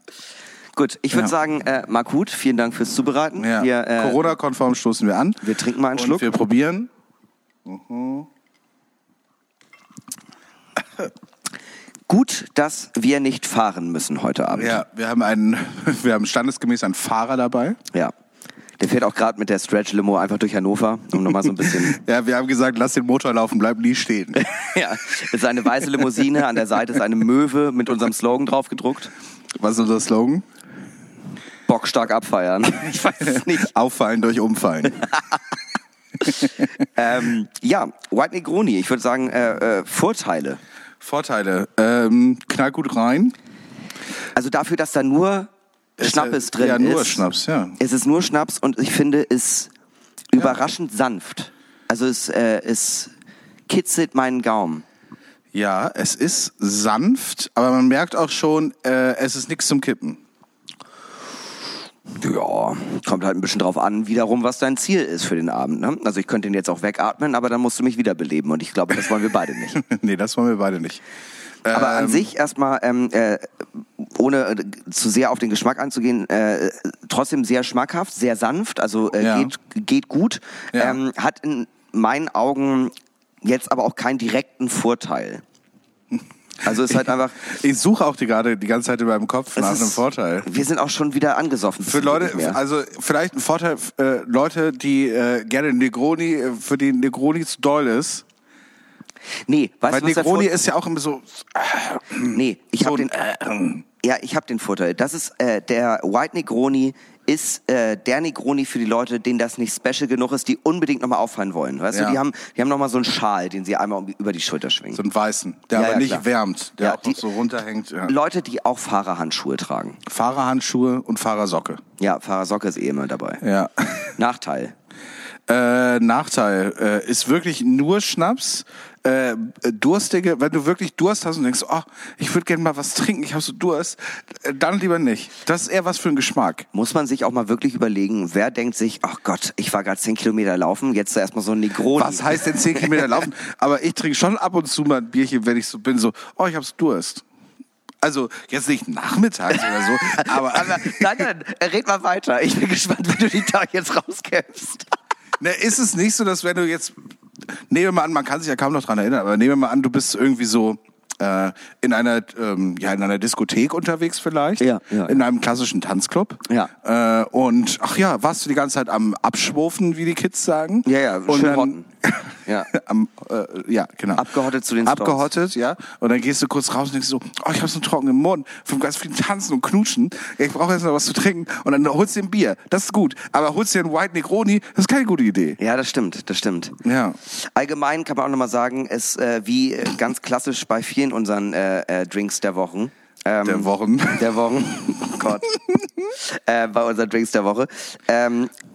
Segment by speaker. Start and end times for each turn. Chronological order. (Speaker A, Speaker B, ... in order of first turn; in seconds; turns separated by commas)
Speaker A: 0.8-4.3, Speaker B: 3.4-6.9, Speaker A: 5.4-6.2, Speaker B: 7.7-8.3, Speaker A: 12.1-14.8, Speaker B: 14.5-17.8, Speaker A: 18.8-22.0, Speaker B: 21.5-24.4, Speaker A: 24.4-29.1, Speaker B: 29.6-30.4, Speaker A: 31.7-33.7, Speaker B: 33.3-35.0, Speaker A: 35.0-35.2, Speaker A: 36.9-40.6, Speaker B: 41.0-43.4, Speaker A: 44.4-47.2, Speaker B: 46.0-47.8, Speaker A: 47.8-49.7, Speaker A: 50.3-53.1, Speaker B: 50.4-50.6, Speaker A: 53.7-54.9, Speaker B: 55.5-60.2, Speaker A: 62.1-69.8, Speaker B: 69.7-71.0, Speaker B: 71.6-72.3, Speaker A: 71.7-85.4, Speaker B: 79.2-79.5, Speaker A: 86.6-87.3, Speaker B: 86.9-90.5, Speaker A: 89.6-92.6, Speaker B: 91.8-98.2, Speaker A: 99.5-100.5, Speaker B: 99.9-103.8, Speaker A: 102.3-103.1, Speaker A: 104.0-115.0, Speaker B: 111.9-112.2, Speaker B: 114.9-118.2, Speaker A: 115.7-116.2, Speaker A: 116.8-117.2, Speaker A: 118.1-120.0, Speaker B: 120.1-121.8, Speaker A: 122.0-123.4, Speaker B: 123.4-124.1, Speaker A: 124.2-124.7, Speaker B: 125.5-136.7, Speaker A: 136.7-143.2, Speaker B: 141.9-147.2, Speaker B: 148.0-151.3, Speaker A: 150.0-154.9, Speaker B: 155.4-156.9, Speaker B: 157.7-174.3, Speaker A: 164.6-165.2, Speaker A: 170.8-171.8, Speaker A: 174.2-175.3, Speaker B: 174.8-185.6, Speaker A: 185.6-195.4, Speaker B: 186.8-187.2, Speaker B: 193.4-196.1, Speaker A: 196.2-198.5